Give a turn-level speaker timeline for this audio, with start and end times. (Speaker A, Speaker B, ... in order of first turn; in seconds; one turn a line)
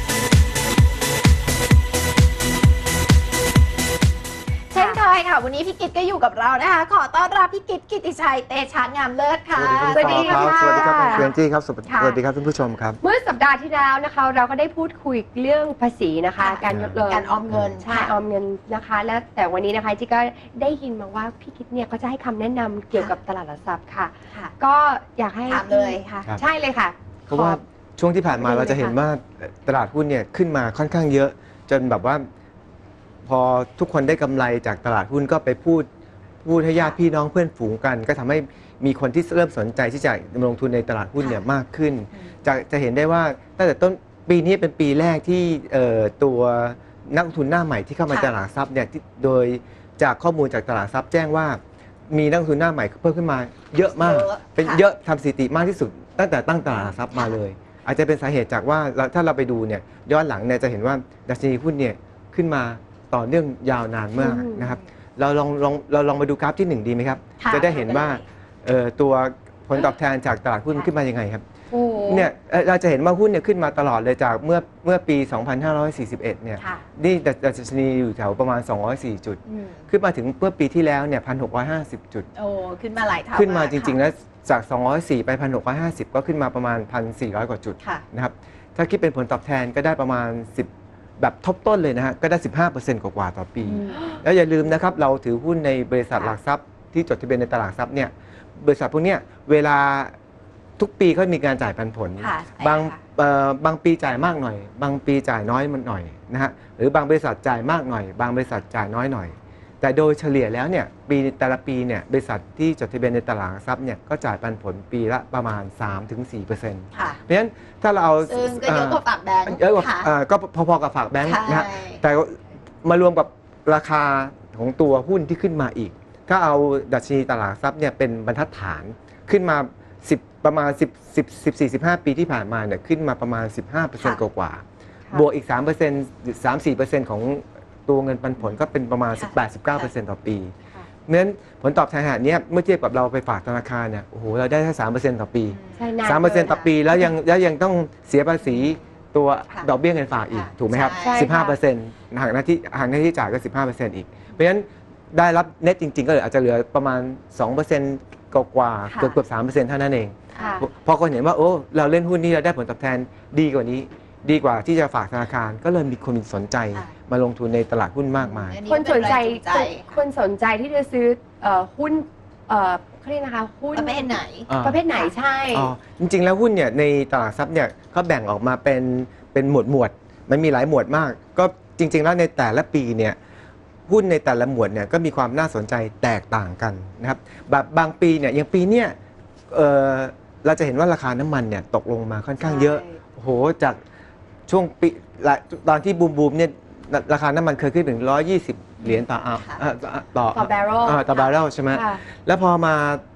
Speaker A: 4.7-11.3
Speaker B: 4.7-5.0
Speaker C: 9.6-13.0
Speaker B: 9.9-11.3
Speaker A: 11.9-12.2
Speaker B: 13.0-27.6
Speaker A: 16.4-18.1
Speaker C: 16.7-17.7
Speaker A: 25.5-26.3
Speaker C: 27.3-32.3
Speaker B: 28.3-28.9
Speaker C: 33.2-35.9
Speaker C: 36.4-71.4
Speaker A: 41.2-41.5
Speaker A: 48.1-48.4
Speaker A: 53.9-54.8
Speaker A: 57.1-57.4
Speaker B: 64.2-64.7
Speaker A: 67.4-68.2
Speaker B: 71.7-72.3
Speaker C: 72.0-82.2
Speaker A: 76.6-76.8
Speaker A: 79.5-79.8
Speaker A: 82.3-84.0
Speaker C: 83.3-100.1
Speaker A: 93.6-94.2
Speaker C: 100.8-140.5
Speaker A: 102.2-103.0
Speaker A: 116.9-117.2
Speaker A: 118.2-120.1
Speaker A: 121.2-122.0
Speaker A: 139.2-139.9
Speaker C: 141.1-168.6
Speaker A: 145.5-146.7
Speaker B: 145.8-146.6
Speaker A: 150.3-151.3
Speaker B: 151.0-151.6
Speaker A: 158.9-159.2
Speaker A: 160.3-160.6
Speaker B: 160.4-160.6
Speaker A: 168.2-170.0
Speaker B: 168.7-175.7
Speaker A: 173.7-175.1
Speaker C: 174.5-174.8
Speaker C: 175.5-183.2
Speaker C: 183.9-188.9
Speaker C: 189.5-193.8
Speaker A: 192.4-192.9
Speaker C: 194.5-203.0
Speaker A: 198.9-199.6
Speaker B: 200.3-201.0
Speaker B: 201.7-202.0